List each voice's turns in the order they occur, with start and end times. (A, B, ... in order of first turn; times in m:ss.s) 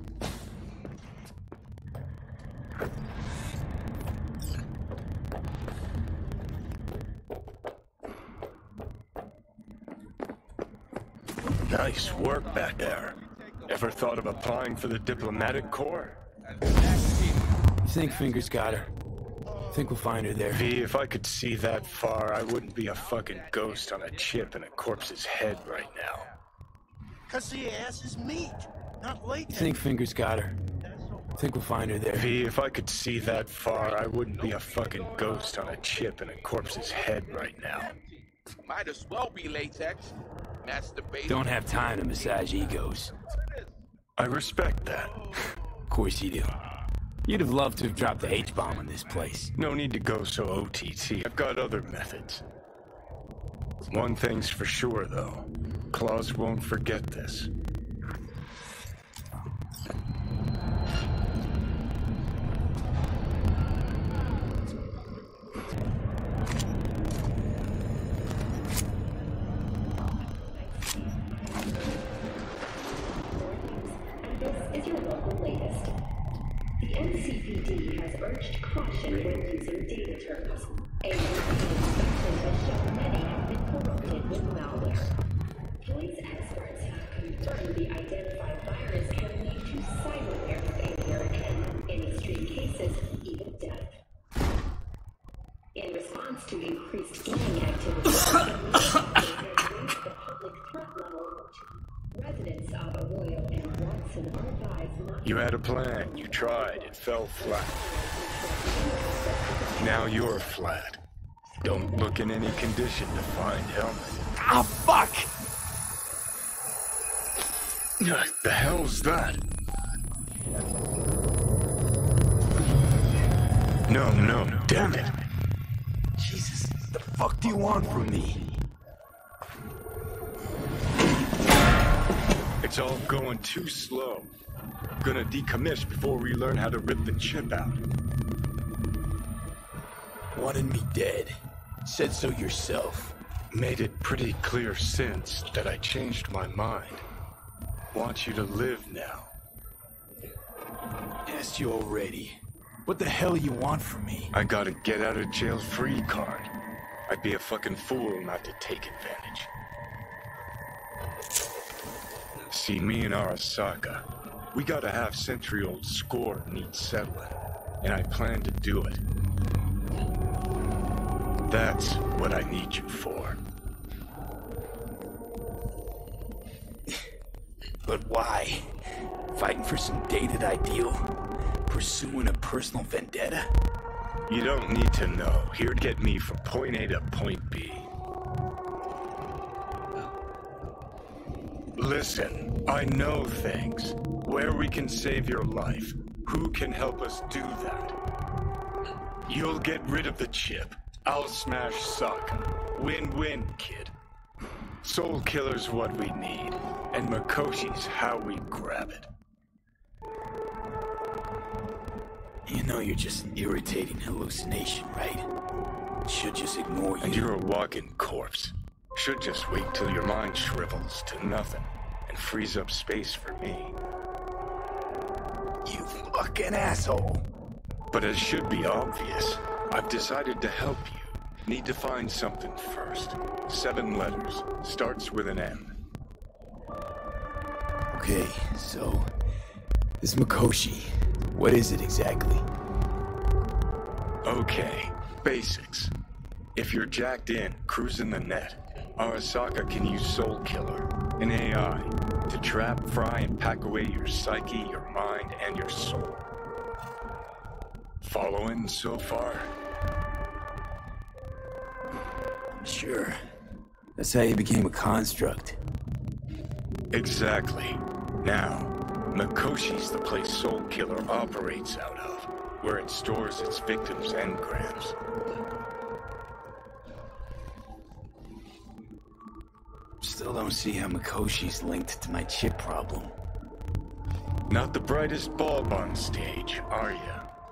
0:11.6-0:16.2 A
0:11.7-0:18.9 B
0:17.8-0:18.9 C
0:19.7-0:20.7 C
0:20.5-0:26.3 A
0:21.6-0:26.3 B
0:27.3-0:29.7 D
0:29.5-0:30.6 C
0:31.3-0:32.3 C
0:32.1-0:37.9 A
0:33.1-0:43.7 B
0:41.2-0:43.1 C
0:44.2-0:45.1 A
0:45.0-0:45.4 B
0:45.9-0:46.5 C
0:47.2-0:49.5 C
0:47.9-0:49.3 B
0:49.5-0:52.4 A
0:53.9-0:57.5 A
1:10.0-1:12.6 E
1:13.2-1:15.9 E
1:16.8-1:25.1 E
1:25.8-1:34.0 E
1:35.7-1:50.2 E
1:45.2-1:47.8 A
1:49.8-1:51.0 A
1:51.6-1:54.2 A
1:51.6-1:52.7 E
1:54.4-1:55.3 C
1:58.0-1:59.4 A
2:03.9-2:05.1 A
2:06.2-2:08.4 C
2:12.6-2:14.3 A
2:15.0-2:17.8 A
2:20.3-2:23.2 C
2:23.5-2:27.0 A
2:27.9-2:29.3 A
2:31.2-2:34.3 C
2:34.3-2:36.5 A
2:37.1-2:39.5 A
2:42.5-2:49.0 A
2:51.4-2:53.4 A
2:57.8-2:58.7 C
2:59.3-3:03.5 C
3:04.3-3:07.9 A
3:11.7-3:18.0 A
3:19.3-3:23.9 A
3:24.8-3:29.1 A
3:32.5-3:35.3 C
3:36.0-3:37.3 C
3:37.0-3:43.8 A
3:45.6-3:47.2 C
3:47.9-3:55.8 A
3:57.9-3:59.1 C
4:00.0-4:02.4 C
4:04.2-4:05.9 A
4:06.5-4:16.3 A
4:18.0-4:19.5 A
4:22.6-4:23.2 C
4:24.0-4:25.6 C
4:26.9-4:35.0 A
4:40.0-4:43.1 C
4:44.5-4:47.2 A